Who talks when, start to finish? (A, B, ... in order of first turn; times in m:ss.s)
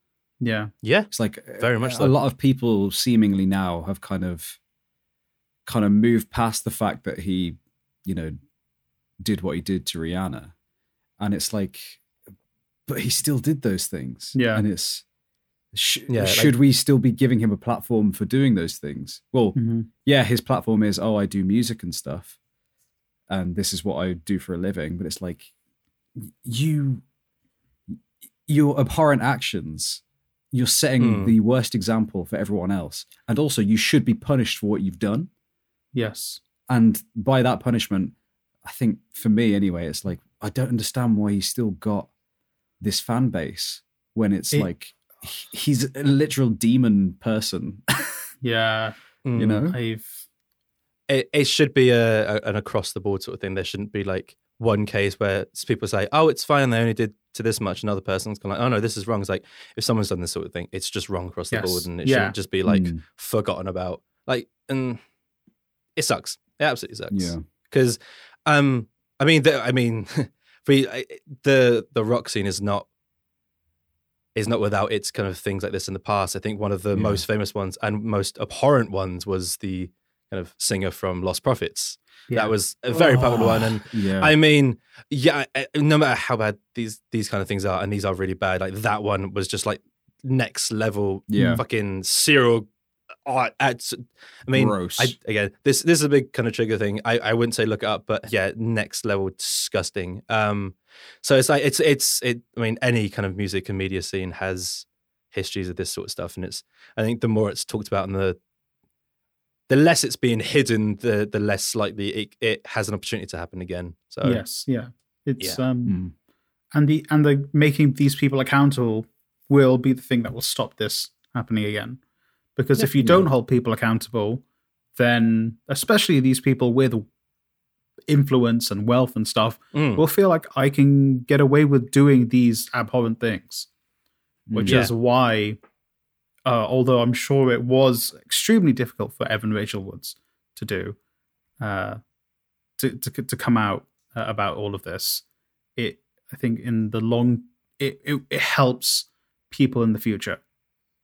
0:00.4-0:00.7 A
0:00.8-0:02.1 B
0:01.1-0:04.6 C
0:05.7-0:08.4 C
0:09.2-0:10.5 C
0:11.2-0:12.0 C
0:12.9-0:15.0 C
0:14.3-0:14.6 A
0:15.7-0:22.4 C
0:16.1-0:16.5 B
0:19.6-0:19.9 A
0:23.3-0:25.5 C
0:26.2-0:27.0 C
0:28.5-0:35.3 C
0:31.0-0:31.3 B
0:35.9-0:36.4 A
0:36.7-0:42.1 C
0:42.8-0:48.1 C
0:48.4-0:49.0 A
0:49.2-0:49.7 B
0:49.4-0:49.8 C
0:49.7-0:50.2 A
0:51.1-1:05.0 B
1:01.5-1:02.4 A
1:02.7-1:03.0 C
1:06.0-1:12.9 B
1:07.1-1:07.4 C
1:14.4-1:32.7 B
1:16.9-1:17.2 C
1:23.3-1:24.4 C
1:31.3-1:31.6 C
1:33.3-1:48.4 B
1:34.5-1:35.1 C
1:49.7-1:54.4 B
1:54.2-1:56.0 A
1:55.9-1:56.1 C
1:56.7-2:02.0 A
2:02.6-2:04.4 A
2:05.0-2:07.0 A
2:08.1-2:13.7 A
2:09.7-2:10.0 B
2:14.5-2:14.9 C
2:14.5-2:15.6 A
2:14.7-2:14.9 B
2:16.5-2:21.0 A
2:21.6-2:22.0 A
2:22.8-2:25.2 A
2:25.8-2:30.4 A